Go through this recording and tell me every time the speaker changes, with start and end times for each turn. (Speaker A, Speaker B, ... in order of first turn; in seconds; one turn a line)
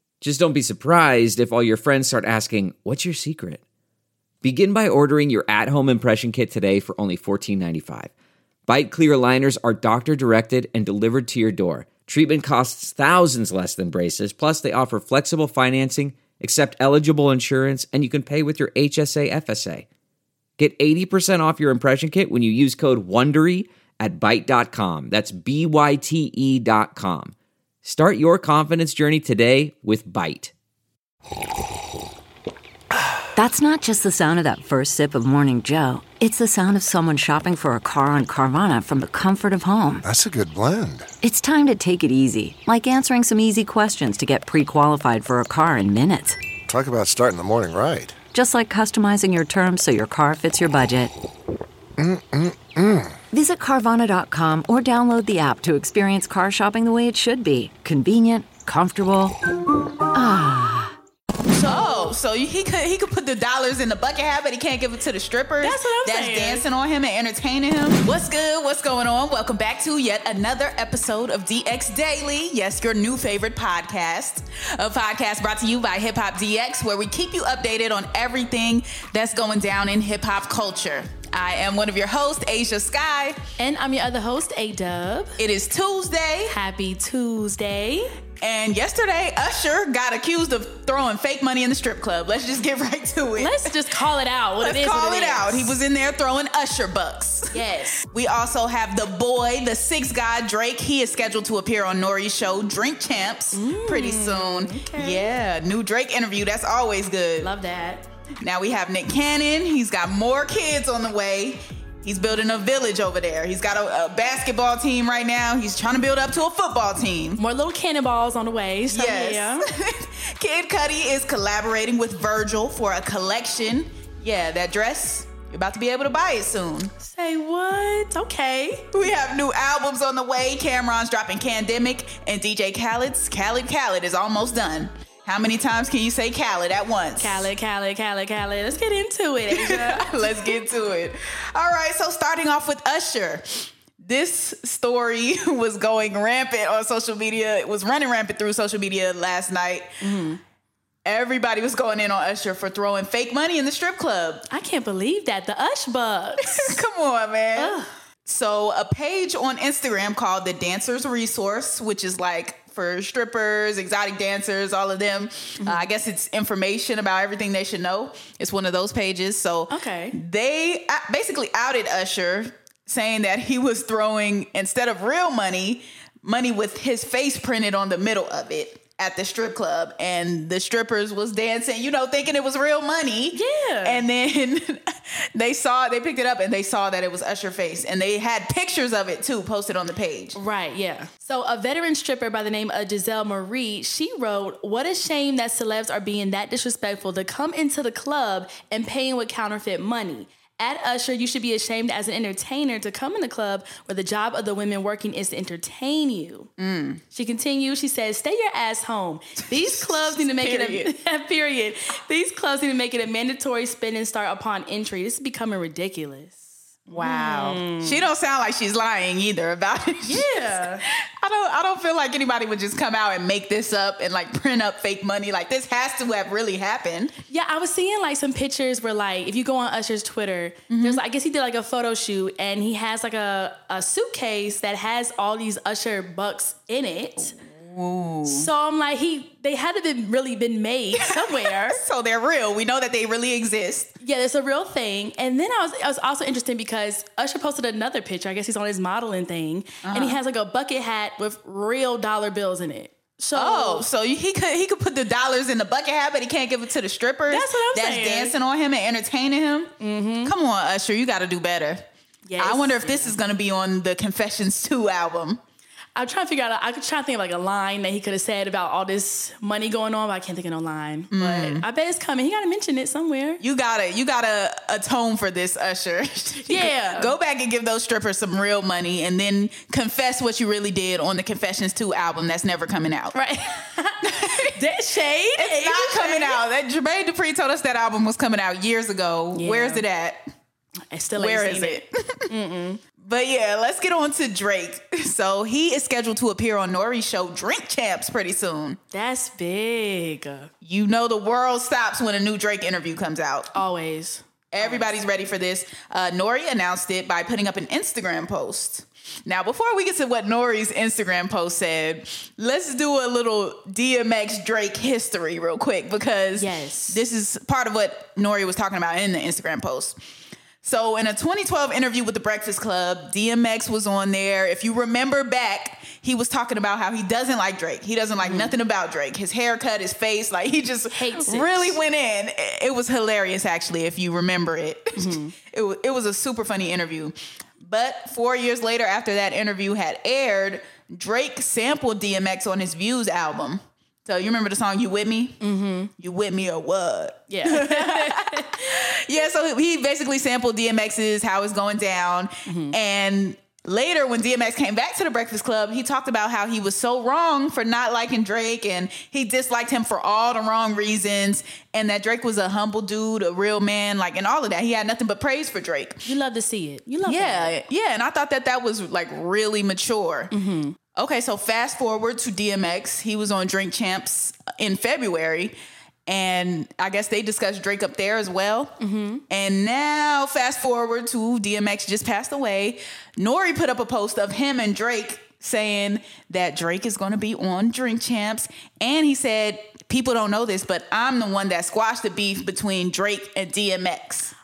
Speaker A: 0.2-3.6
Speaker A: 4.4-8.1
Speaker A: 8.7-19.9
Speaker A: 20.6-30.5
Speaker B: 33.3-40.1
Speaker C: 40.0-41.1
Speaker B: 41.2-46.4
Speaker C: 46.7-48.2
Speaker B: 48.3-51.1
Speaker C: 52.0-53.1
Speaker B: 53.3-59.3
Speaker B: 60.1-61.0
Speaker D: 61.5-62.2
Speaker E: 61.6-83.4
Speaker D: 65.6-66.7
Speaker D: 83.6-85.4
Speaker E: 85.4-86.5
Speaker D: 86.5-88.2
Speaker E: 88.4-93.7
Speaker D: 93.4-95.8
Speaker E: 94.6-107.5
Speaker D: 97.5-98.0
Speaker D: 103.5-105.3
Speaker D: 107.4-108.1
Speaker E: 108.4-117.4
Speaker D: 117.4-119.6
Speaker E: 118.9-126.9
Speaker D: 127.0-128.9
Speaker E: 128.9-137.5
Speaker D: 137.2-140.7
Speaker E: 139.5-150.2
Speaker D: 150.0-150.4
Speaker E: 151.0-154.4
Speaker D: 154.5-156.8
Speaker E: 156.4-190.4
Speaker D: 157.6-157.9
Speaker D: 169.7-170.2
Speaker D: 183.3-184.0
Speaker D: 190.3-206.5
Speaker E: 206.6-207.0
Speaker D: 207.1-218.1
Speaker E: 209.5-210.9
Speaker E: 216.9-220.6
Speaker D: 220.0-220.8
Speaker E: 221.2-227.1
Speaker D: 227.3-237.4
Speaker E: 230.7-231.0
Speaker E: 237.4-238.5
Speaker D: 238.2-241.8
Speaker E: 241.0-243.9
Speaker D: 244.0-253.9
Speaker E: 249.8-250.2
Speaker E: 253.3-261.8
Speaker D: 257.3-258.4
Speaker D: 259.8-260.3
Speaker D: 262.2-263.2
Speaker E: 262.4-265.4
Speaker D: 266.0-273.4
Speaker E: 271.1-271.7
Speaker E: 273.4-283.2
Speaker D: 276.4-277.1
Speaker D: 283.1-286.4
Speaker E: 284.1-284.6
Speaker E: 285.4-290.2
Speaker D: 289.3-289.8
Speaker D: 290.9-292.8
Speaker E: 291.2-292.3
Speaker E: 293.0-298.8
Speaker D: 298.9-300.5
Speaker E: 300.6-303.5
Speaker D: 303.5-304.9
Speaker E: 304.5-320.0
Speaker D: 316.4-317.0
Speaker E: 320.6-345.4
Speaker D: 328.2-328.6
Speaker D: 330.9-331.8
Speaker D: 335.0-335.3
Speaker D: 345.4-345.9
Speaker E: 346.0-366.1
Speaker D: 347.3-348.6
Speaker D: 352.5-352.8
Speaker D: 366.1-367.6
Speaker E: 367.1-370.3
Speaker D: 370.3-370.8
Speaker E: 370.9-375.6
Speaker E: 376.1-378.8
Speaker D: 378.8-379.2
Speaker E: 379.3-394.3